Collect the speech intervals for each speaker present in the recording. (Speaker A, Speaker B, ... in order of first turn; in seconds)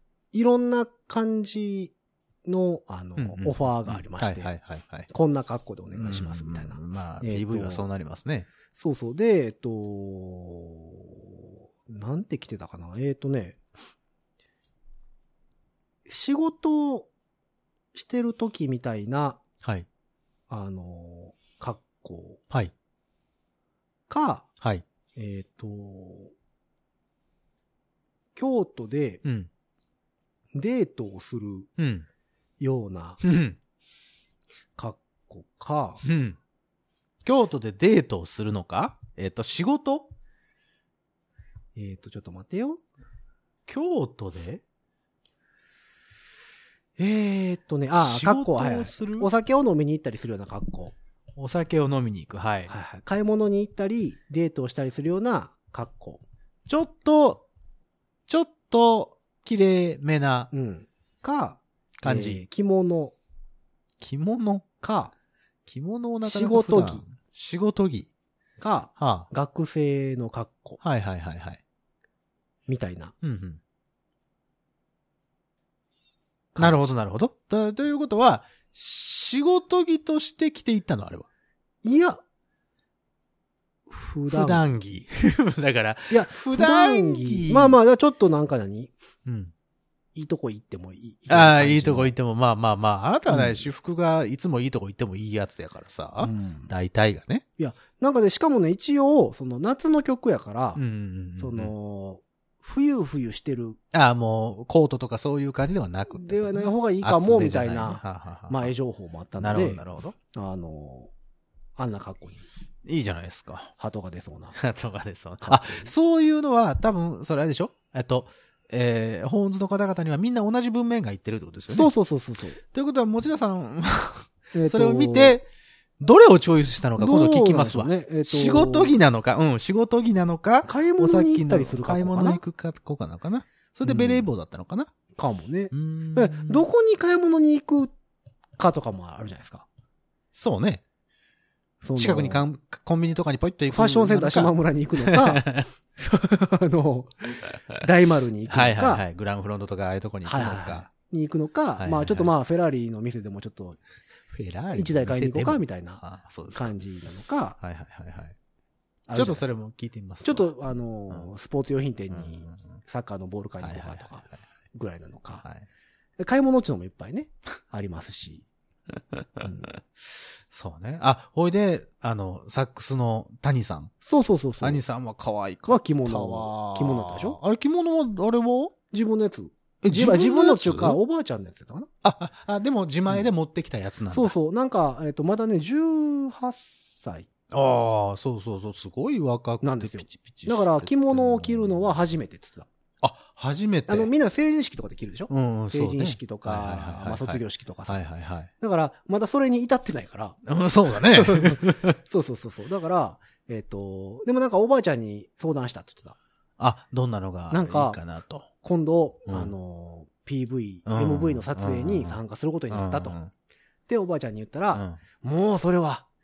Speaker A: 0.3-1.9, 2.5-4.5, 5.1-7.8, 8.7-13.6, 16.1-17.1, 17.9-19.4, 20.5-22.4, 24.1-24.5, 25.1-26.3, 28.4-29.2, 30.6-31.7, 32.6-33.2, 34.8-36.0, 41.8-42.8, 47.0-51.0, 52.7-56.2, 60.5-63.1, 64.8-65.1, 66.2-67.0, 68.6-70.8, 72.7-73.1, 76.5-76.9, 81.8-82.2, 83.9-84.7, 86.1-88.9, 90.2-92.1, 93.3-93.7, 96.2-96.7, 97.6-100.8, 101.4-103.8, 106.1-111.1, 111.8-112.5, 113.8-114.6, 115.4-115.9, 121.7-122.6, 124.5-125.4, 127.0-129.0, 130.6-132.4, 133.8-134.3, 135.2-137.9, 138.6-139.7, 141.8-142.4, 143.7-149.0, 150.2-153.8, 154.8-157.6, 159.1-159.5, 160.2-165.4, 166.2-168.4, 169.4-169.7, 174.0-174.8, 175.7-177.4, 178.9-181.9, 184.1-187.3, 189.6-192.7, 193.9-198.0, 198.6-200.4, 200.9-206.2, 207.5-208.0, 208.6-213.2, 213.9-216.1
Speaker B: 3.2-5.1, 5.9-8.5, 19.6-19.9, 29.2-29.5, 31.8-32.1, 33.2-33.6, 36.0-36.4, 37.2-40.1, 43.7-44.6, 47.9-49.3, 51.4-52.7, 56.7-57.5, 58.3-60.5, 62.0-62.4, 64.0-64.7, 65.7-68.1, 69.0-69.3, 70.8-71.6, 73.2-73.6, 76.6-81.3, 84.3-87.8, 89.3-89.5, 91.3-97.4, 100.8-101.7, 103.9-108.7, 109.4-110.2, 112.8-113.7, 114.5-121.9, 122.7-125.5, 126.0-134.9, 135.7-136.6, 140.3-140.8, 142.0-145.7, 148.5-150.9, 151.8-152.3, 154.3-156.7, 157.6-158.3, 159.2-160.5, 162.1-162.6, 163.6-164.3, 170.1-173.9, 174.6-178.7, 179.8-181.0, 182.0-184.3, 187.5-191.9, 193.0-194.1, 195.3-198.5, 200.5-201.9, 206.6-208.5, 209.3-209.5, 210.9-212.2, 212.7-213.3, 214.7-215.0